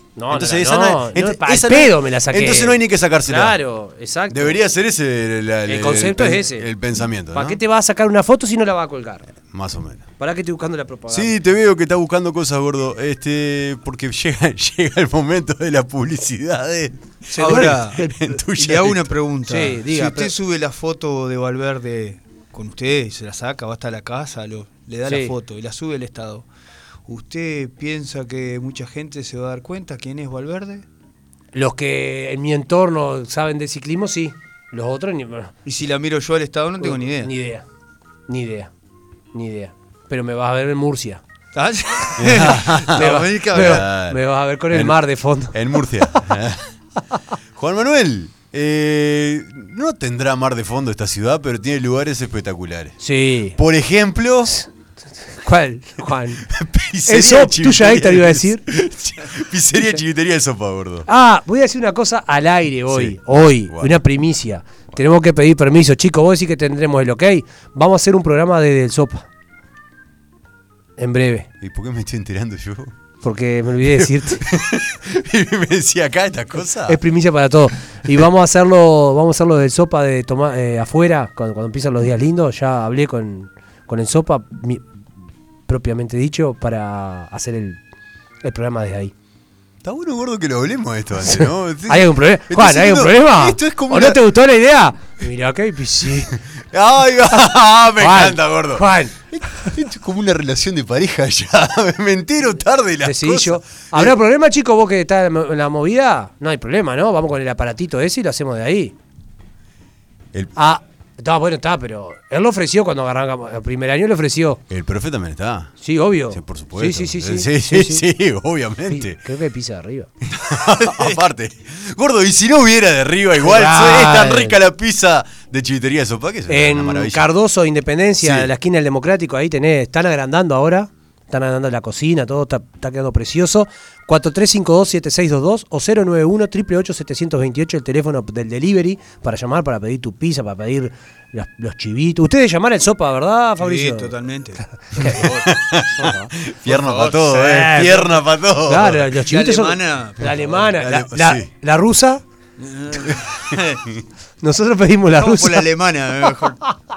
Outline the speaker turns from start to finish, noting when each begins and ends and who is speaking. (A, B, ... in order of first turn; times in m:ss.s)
0:00.2-0:04.6 A
0:00.3-0:03.6 B
0:04.3-0:07.6 B
0:05.7-0:06.7 A
0:07.3-0:09.3 A
0:09.5-0:10.0 B
0:10.2-0:11.4 A
0:11.1-0:19.1 B
0:17.3-0:18.1 A
0:17.4-0:26.4 C
0:19.5-0:20.3 A
0:25.0-0:25.3 A
0:27.1-0:30.8 C
0:31.5-0:35.5 A
0:35.6-0:37.3 C
0:36.8-0:37.6 A
0:38.3-0:38.7 A
0:39.3-0:41.2 A
0:41.5-0:43.8 C
0:42.2-0:46.7 B
0:42.9-0:46.3 A
0:47.6-0:53.0 B
0:53.0-0:53.6 A
0:53.5-0:54.5 B
0:54.4-0:56.5 A
0:56.4-1:01.1 B
0:57.0-0:58.6 A
1:01.1-1:09.2 A
1:02.9-1:04.0 B
1:11.0-1:11.5 A
1:11.6-1:12.9 B
1:13.2-1:14.4 A
1:13.9-1:17.0 B
1:16.8-1:24.9 A
1:25.7-1:27.8 A
1:28.4-1:29.1 A
1:29.8-1:34.2 B
1:31.2-1:36.3 A
1:36.7-1:44.2 B
1:38.0-1:39.1 A
1:43.0-1:48.9 A
1:50.5-1:54.6 A
1:54.7-1:55.7 B
1:55.8-1:58.1 A
1:56.3-1:59.2 B
1:58.9-2:00.1 A
2:00.2-2:07.3 B
2:03.4-2:04.6 A
2:06.5-2:24.1 A
2:08.2-2:08.5 B
2:23.6-2:25.5 C
2:24.8-2:25.2 A
2:25.1-2:29.1 B
2:26.0-2:26.3 A
2:26.7-2:27.3 C
2:27.3-2:32.2 A
2:29.2-2:30.5 C
2:30.3-2:31.5 B
2:32.6-2:33.8 C
2:33.0-2:34.0 B
2:34.4-2:35.6 A
2:35.1-2:36.6 C